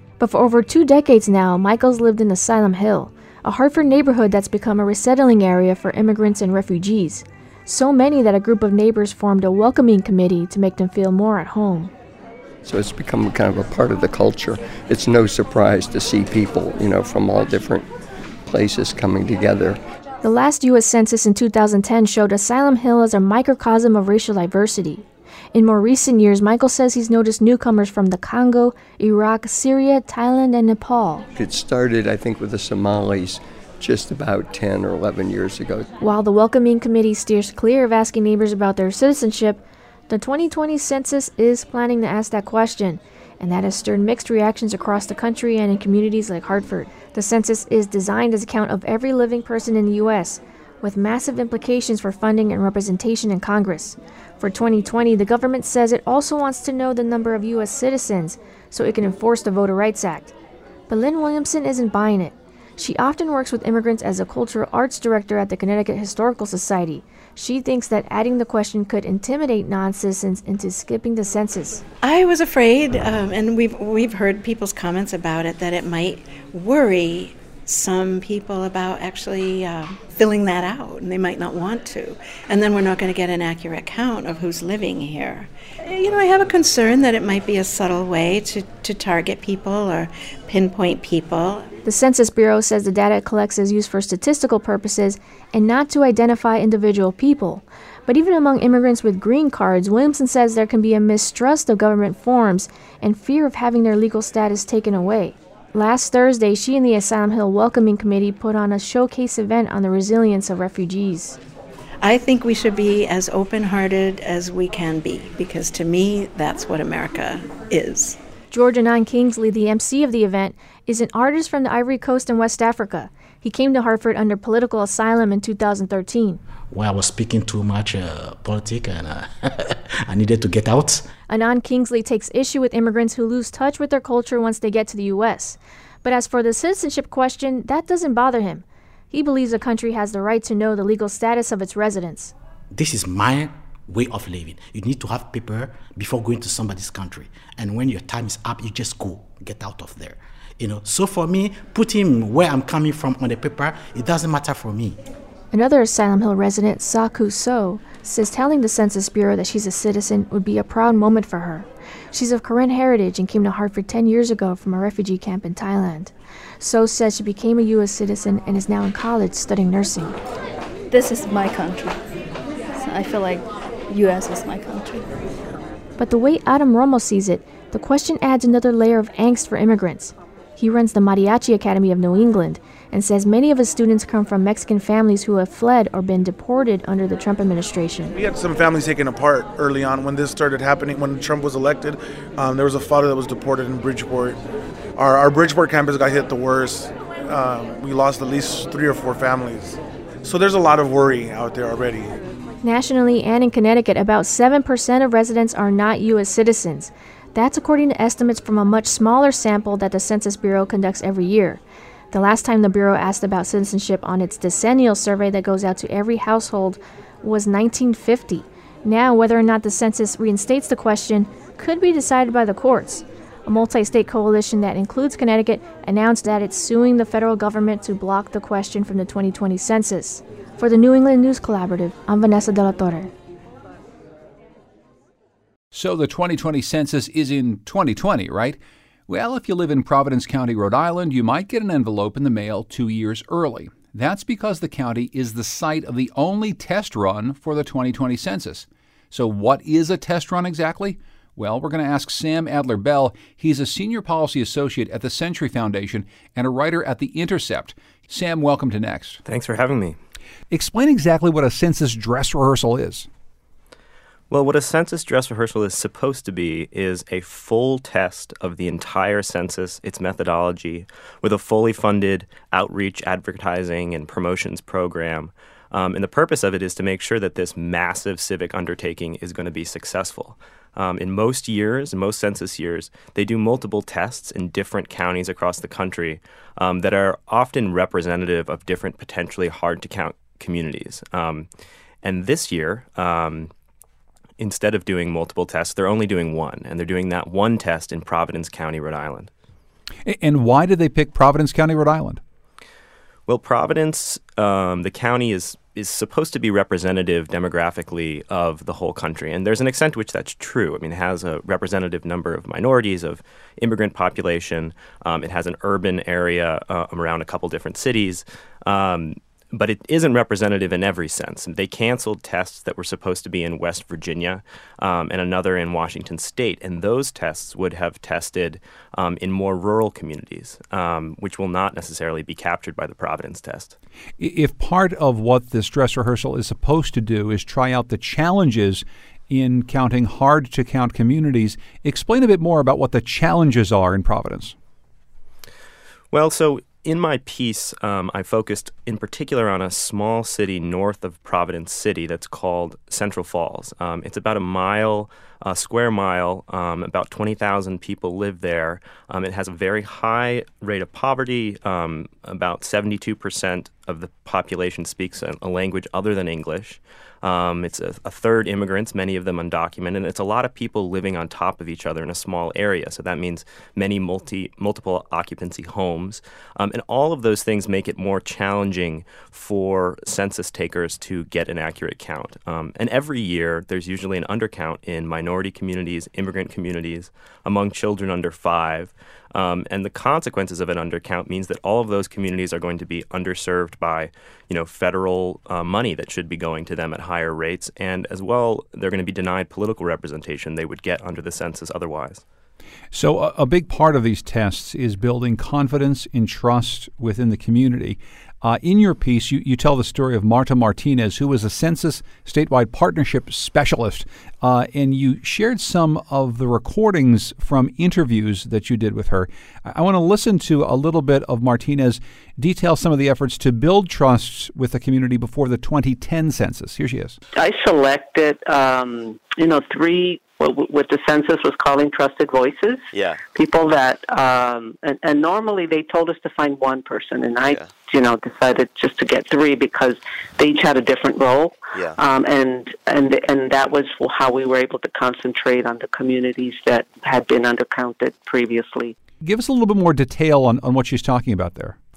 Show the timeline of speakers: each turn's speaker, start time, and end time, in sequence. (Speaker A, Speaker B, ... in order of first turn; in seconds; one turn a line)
Speaker A: 0.2-11.9
Speaker B: 12.6-17.9
Speaker B: 18.5-19.8
Speaker A: 20.2-31.3
Speaker B: 31.4-35.9
Speaker A: 36.0-60.3
Speaker A: 60.9-71.8
Speaker C: 72.1-85.5
Speaker C: 86.0-91.6
Speaker A: 91.8-111.4
Speaker C: 112.0-118.2
Speaker A: 118.5-126.4
Speaker D: 126.7-131.1
Speaker A: 131.3-142.3
Speaker D: 142.7-155.0
Speaker A: 155.5-170.2
Speaker E: 170.9-172.0
Speaker E: 172.8-175.1
Speaker A: 176.0-188.2
Speaker F: 188.2-194.4
Speaker F: 195.0-202.2
Speaker A: 202.6-233.1
Speaker G: 235.7-259.2
Speaker H: 259.2-260.0
Speaker G: 260.5-263.1
Speaker H: 264.3-291.5
Speaker H: 292.0-293.5
Speaker H: 294.4-299.3
Speaker G: 300.1-302.2
Speaker H: 303.3-333.8
Speaker G: 334.2-344.6
Speaker H: 346.1-402.2
Speaker G: 402.9-427.2
Speaker I: 427.4-448.9
Speaker G: 449.2-451.8